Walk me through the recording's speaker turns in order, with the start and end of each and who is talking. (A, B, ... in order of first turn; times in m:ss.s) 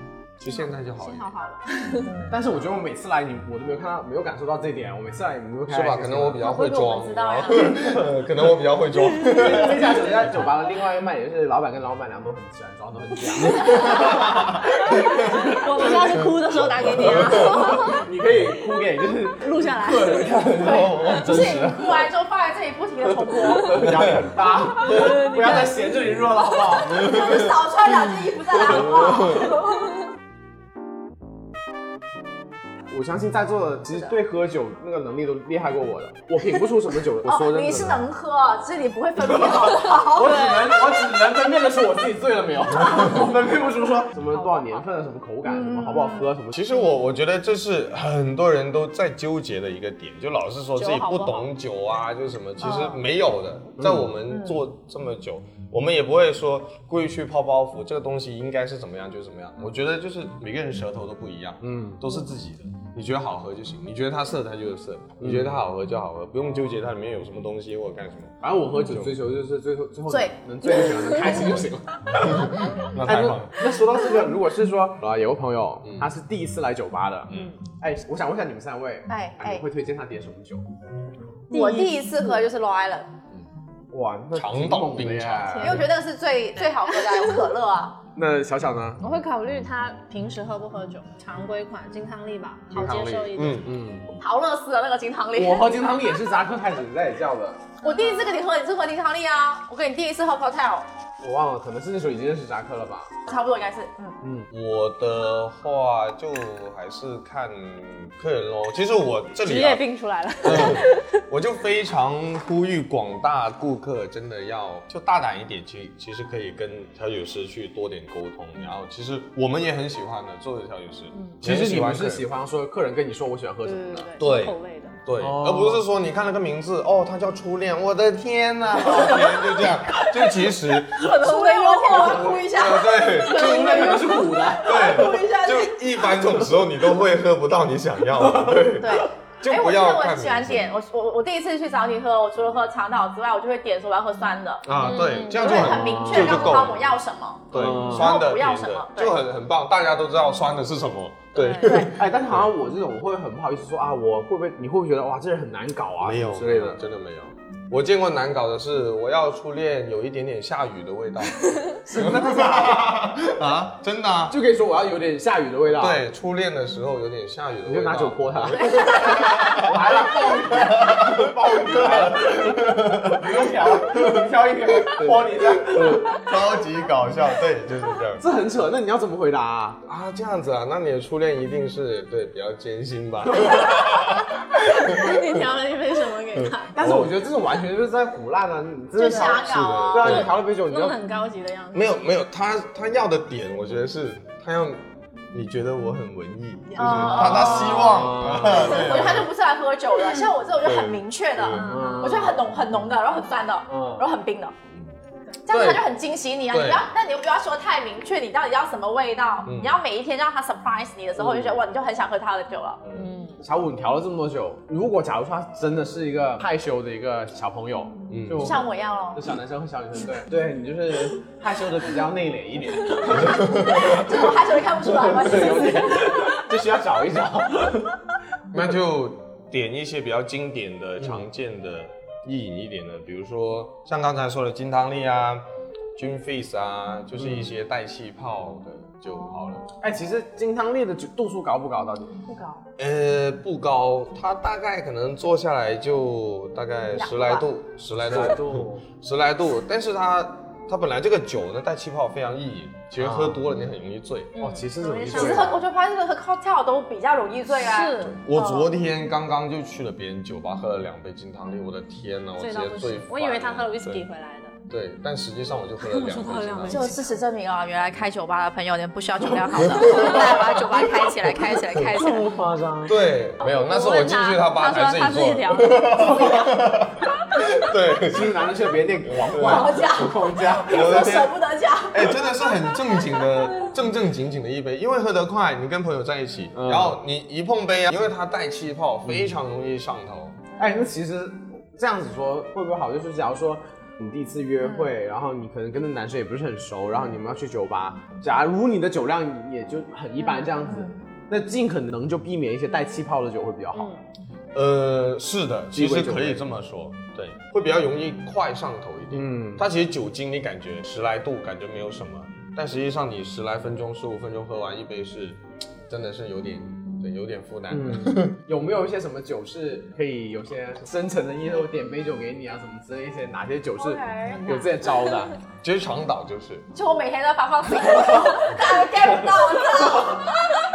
0:00.4-0:01.3 A
0:00.4-0:02.2 B
0:02.0-0:02.4 C
0:02.3-0:06.4 D
0:05.7-0:10.0 A
0:06.4-0:07.9 C
0:09.2-0:16.3 D
0:13.4-0:14.1 B
0:13.7-0:14.4 A
0:14.7-0:18.0 B
0:16.8-0:17.5 A
0:16.8-0:22.1 D
0:19.4-0:20.6 B
0:20.6-0:21.6 A
0:20.6-0:24.0 C
0:23.3-0:27.1 D
0:23.9-0:24.3 A
0:24.8-0:26.1 B
0:26.8-0:29.9 C
0:27.0-0:27.5 A
0:28.6-0:29.5 A
0:28.7-0:29.2 D
0:32.9-0:38.0 D
0:37.2-0:40.4 C
0:39.3-0:46.6 D
0:40.1-0:40.8 B
0:44.3-0:44.8 B
0:45.4-0:46.3 C
0:46.5-1:09.2 A
0:50.8-0:51.5 B
0:52.6-0:53.0 C
0:53.8-0:54.1 D
0:54.3-0:54.6 C
1:01.6-1:02.0 D
1:05.2-1:05.5 D
1:08.4-1:20.7 D
1:10.1-1:10.8 C
1:12.1-1:13.6 A
1:15.8-1:16.1 A
1:17.3-1:17.6 A
1:17.3-1:17.6 B
1:19.1-1:19.6 C
1:21.5-1:22.4 B
1:21.5-1:23.1 C
1:23.9-1:25.8 D
1:24.3-1:25.8 A
1:25.5-1:25.8 B
1:25.6-1:28.0 C
1:26.6-1:27.4 B
1:28.1-1:29.0 D
1:29.0-1:33.7 B
1:32.7-1:34.1 D
1:33.3-1:33.7 A
1:34.2-1:35.7 C
1:35.3-1:37.6 D
1:37.8-1:40.9 C
1:37.8-1:38.4 B
1:41.2-1:43.1 D
1:43.3-1:44.2 C
1:44.2-1:44.5 D
1:44.5-1:49.8 A
1:49.4-1:51.2 B
1:50.4-2:02.2 A
2:01.1-2:01.4 B
2:01.4-2:04.1 D
2:03.6-2:05.0 B
2:04.2-2:11.2 A
2:05.2-2:05.8 D
2:10.9-2:12.5 B
2:11.0-2:15.8 C
2:12.0-2:14.0 A
2:13.2-2:15.2 D
2:13.4-2:14.5 B
2:14.6-2:20.7 A
2:18.2-2:18.8 D
2:18.8-2:24.7 C
2:24.6-2:26.9 A
2:24.8-2:25.8 B
2:25.3-2:29.2 C
2:25.4-2:26.5 D
2:27.5-2:32.5 A
2:27.5-2:28.1 D
2:31.4-2:31.7 B
2:31.6-2:31.9 C
2:31.8-2:36.8 D
2:36.0-2:44.4 A
2:41.9-2:43.0 D
2:44.3-2:46.0 D
2:45.7-2:53.4 A
2:47.6-2:56.2 D
2:55.0-2:58.2 A
2:58.2-2:59.8 D
2:59.8-3:05.3 A
3:04.5-3:06.9 B
3:06.7-3:11.0 D
3:06.8-3:07.1 A
3:09.0-3:10.2 C
3:09.0-3:11.9 B
3:09.4-3:10.3 A
3:11.7-3:19.3 A
3:16.7-3:17.5 B
3:16.8-3:24.5 C
3:16.8-3:18.8 D
3:20.6-3:21.8 A
3:21.5-3:22.4 B
3:21.7-3:22.4 D
3:23.7-3:24.1 D
3:25.4-3:32.8 C
3:25.5-3:25.9 A
3:26.5-3:26.9 A
3:29.4-3:29.8 A
3:31.2-3:31.6 D
3:32.8-3:33.1 A
3:32.9-3:33.4 B
3:33.4-3:44.2 D
3:38.1-3:38.6 A
3:38.4-3:39.3 C
3:43.2-3:43.9 A
3:43.4-3:46.1 C
3:44.8-3:48.0 D
3:48.5-3:59.7 A
3:57.2-3:57.5 D
3:59.8-4:02.2 D
4:02.3-4:02.6 C
4:02.8-4:14.3 A
4:06.9-4:07.4 C
4:08.0-4:08.8 D
4:13.0-4:13.4 D
4:14.3-4:15.6 B
4:14.4-4:15.6 D
4:15.1-4:18.7 C
4:17.5-4:18.2 B
4:18.1-4:24.0 A
4:22.4-4:24.6 B
4:24.7-4:27.0 A
4:25.8-4:27.2 B
4:26.7-4:32.2 C
4:29.6-4:30.8 A
4:31.3-4:31.9 A
4:31.9-4:33.0 D
4:32.8-4:38.4 A
4:33.4-4:36.3 B
4:36.0-4:36.5 D
4:38.1-4:41.0 D
4:39.0-4:39.9 A
4:39.3-4:42.2 C
4:40.6-4:50.4 A
4:46.5-4:47.0 D
4:49.1-4:49.3 D
4:50.5-4:50.8 C
4:50.6-5:03.9 D
4:54.6-4:54.9 C
5:00.6-5:00.9 C
5:03.7-5:04.0 B
5:04.5-5:18.4 A
5:05.7-5:06.4 D
5:09.1-5:09.7 D
5:17.7-5:25.3 D
5:23.8-5:24.7 C
5:24.3-5:24.6 B
5:25.6-5:26.7 A
5:26.7-5:30.4 C